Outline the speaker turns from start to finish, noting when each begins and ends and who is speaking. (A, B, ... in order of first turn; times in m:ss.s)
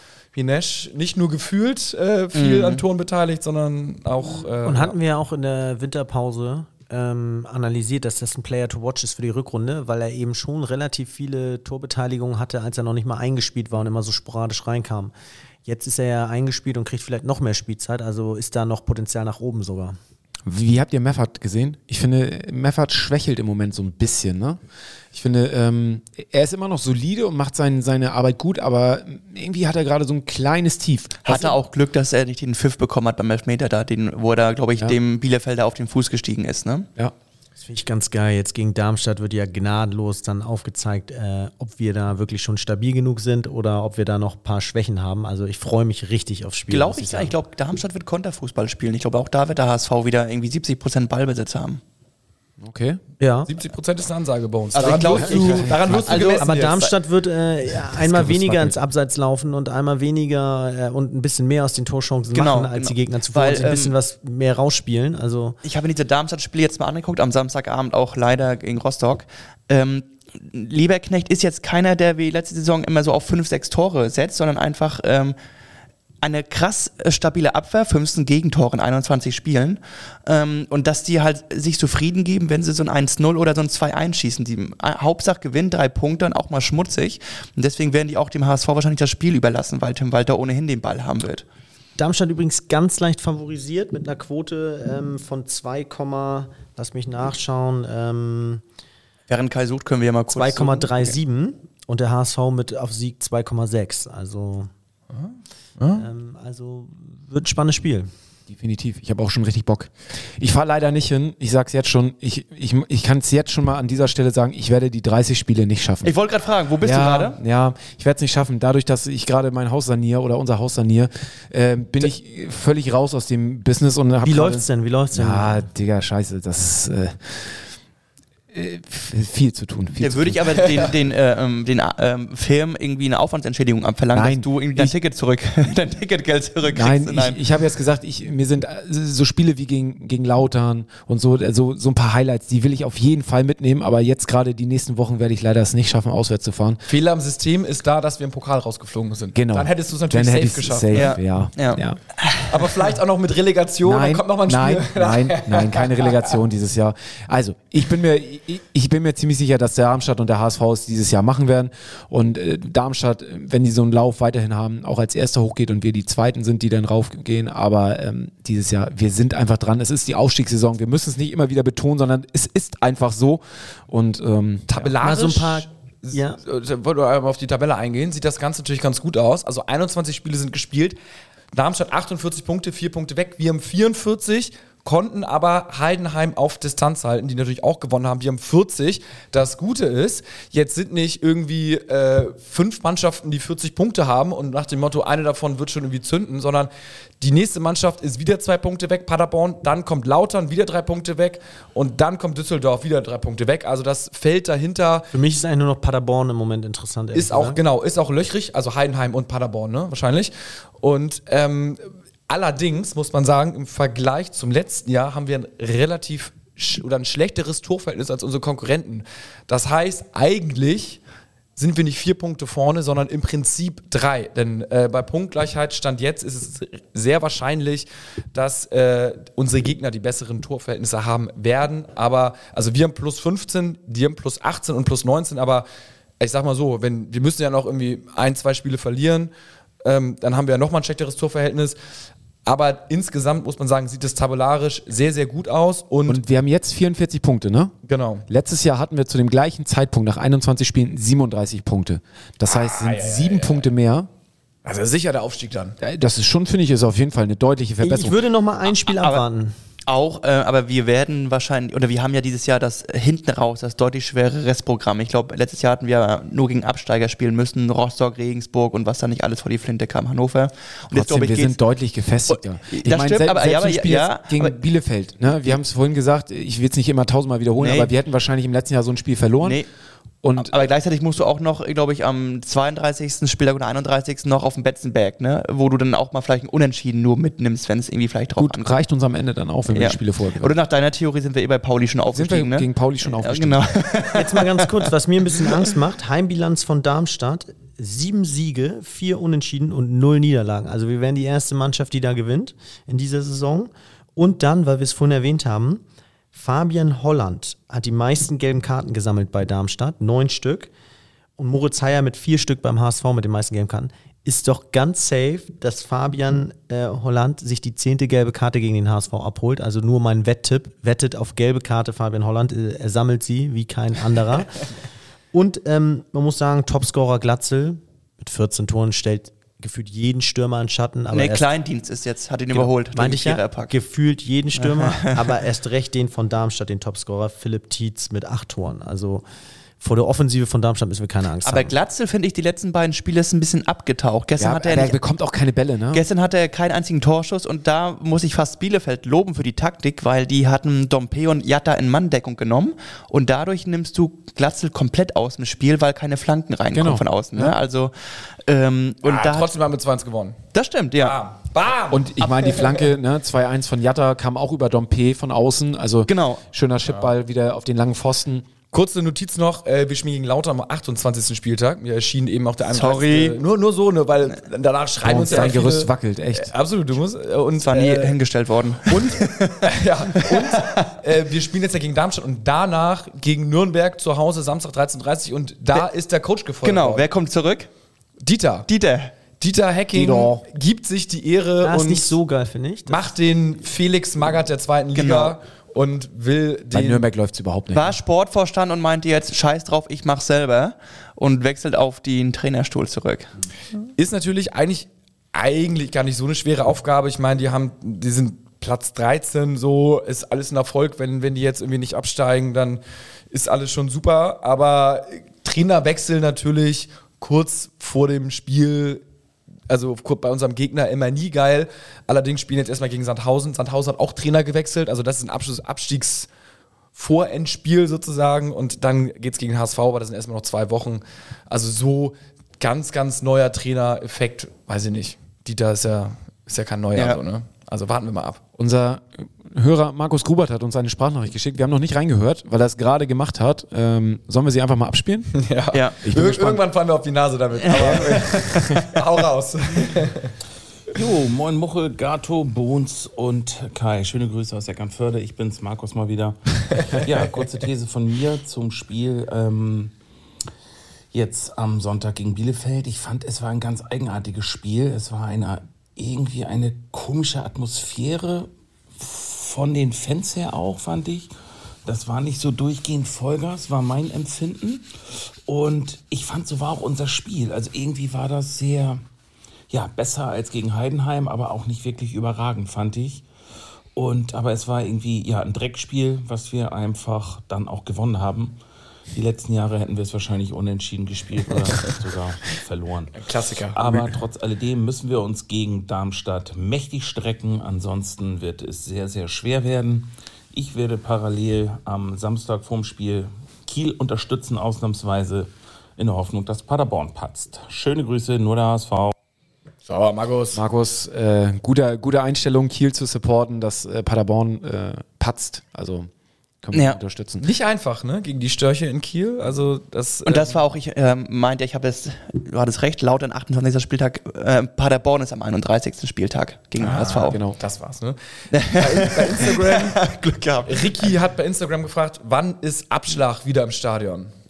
0:00.3-0:05.0 A
0:02.3-0:02.8 B
0:04.6-0:15.1 C
0:15.6-0:20.0 C
0:20.4-0:24.6 D
0:25.1-0:31.6 D
0:31.2-0:36.9 B
0:37.6-0:47.3 C
0:46.7-0:51.8 B
0:52.6-0:53.0 D
0:53.2-0:53.5 C
0:53.4-0:56.9 A
0:54.7-0:56.6 B
0:54.8-0:56.2 D
0:56.1-1:05.6 C
0:57.9-0:58.8 D
1:02.3-1:03.9 B
1:05.6-1:15.4 B
1:16.2-1:31.4 B
1:32.0-1:38.6 C
1:39.3-1:41.2 B
1:40.3-1:44.7 C
1:45.1-1:46.0 A
1:46.0-1:48.1 C
1:48.5-1:56.1 D
1:56.0-1:57.4 B
1:56.8-2:07.7 D
2:04.2-2:05.6 C
2:08.5-2:10.6 D
2:10.0-2:17.4 B
2:14.1-2:14.9 D
2:16.7-2:26.8 D
2:26.8-2:31.0 A
2:29.3-2:32.0 D
2:30.9-2:32.5 B
2:32.5-2:36.2 A
2:33.8-2:54.9 D
2:54.7-3:01.0 A
2:55.0-2:56.4 C
3:01.5-3:16.7 A
3:17.2-3:25.1 A
3:25.1-3:27.6 C
3:27.1-3:41.0 A
3:41.6-3:55.6 A
3:56.2-3:59.3 A
3:59.8-4:01.8 A
4:02.4-4:06.2 A
4:06.1-4:07.7 D
4:07.8-4:08.2 A
4:08.3-4:14.1 D
4:12.5-4:13.6 A
4:14.6-4:15.8 A
4:15.8-4:18.2 D
4:17.8-4:19.5 C
4:18.6-4:19.2 B
4:19.9-4:31.6 B
4:30.9-4:39.6 D
4:32.3-4:34.5 B
4:37.6-4:37.9 B
4:39.4-4:39.7 B
4:40.2-4:40.5 D
4:40.4-4:48.8 B
4:48.4-4:50.6 D
4:49.7-4:54.9 B
4:52.1-4:53.7 D
4:54.1-5:05.8 C
5:06.3-5:10.7 C
5:11.4-5:24.7 C
5:25.3-5:31.5 C
5:31.1-5:33.7 B
5:32.5-5:39.2 C
5:34.5-5:35.4 B
5:39.8-5:41.7 C
5:41.4-5:45.0 B
5:44.4-5:46.0 D
5:45.9-5:59.5 B
5:56.7-5:57.6 D
5:59.0-6:00.4 A
6:00.5-6:01.2 B
6:01.0-6:02.8 A
6:01.9-6:08.4 D
6:06.1-6:06.4 B
6:06.9-6:07.1 A
6:08.7-6:18.2 A
6:12.7-6:13.4 B
6:15.0-6:16.5 D
6:17.6-6:19.7 B
6:18.8-6:27.0 A
6:20.2-6:20.9 B
6:26.6-6:27.7 B
6:28.2-6:28.7 A
6:28.7-6:29.1 B
6:29.4-6:32.2 A
6:29.9-6:30.4 D
6:31.6-6:33.0 C
6:32.9-6:37.0 A
6:35.0-6:35.4 B
6:36.7-6:37.9 D
6:37.7-6:43.3 B
6:44.0-6:59.0 A
6:59.7-7:06.3 A
7:06.9-7:18.4 A
7:18.6-7:25.4 D
7:25.4-7:30.3 A
7:26.0-7:26.6 D
7:27.6-7:28.7 B
7:27.7-7:28.8 D
7:30.9-7:39.9 E
7:41.1-7:51.3 E
7:51.8-7:54.8 E
7:55.5-7:59.0 E
7:59.7-8:03.2 E
8:04.0-8:08.6 E
8:09.1-8:13.2 E
8:13.1-8:14.1 A
8:13.7-8:29.1 E
8:29.8-8:30.6 A
8:30.5-8:36.1 D
8:36.6-8:37.4 D
8:37.4-8:40.5 A
8:40.2-8:47.4 B
8:46.8-8:50.0 A
8:46.9-8:47.6 D
8:48.5-8:51.1 B
8:50.6-8:54.3 A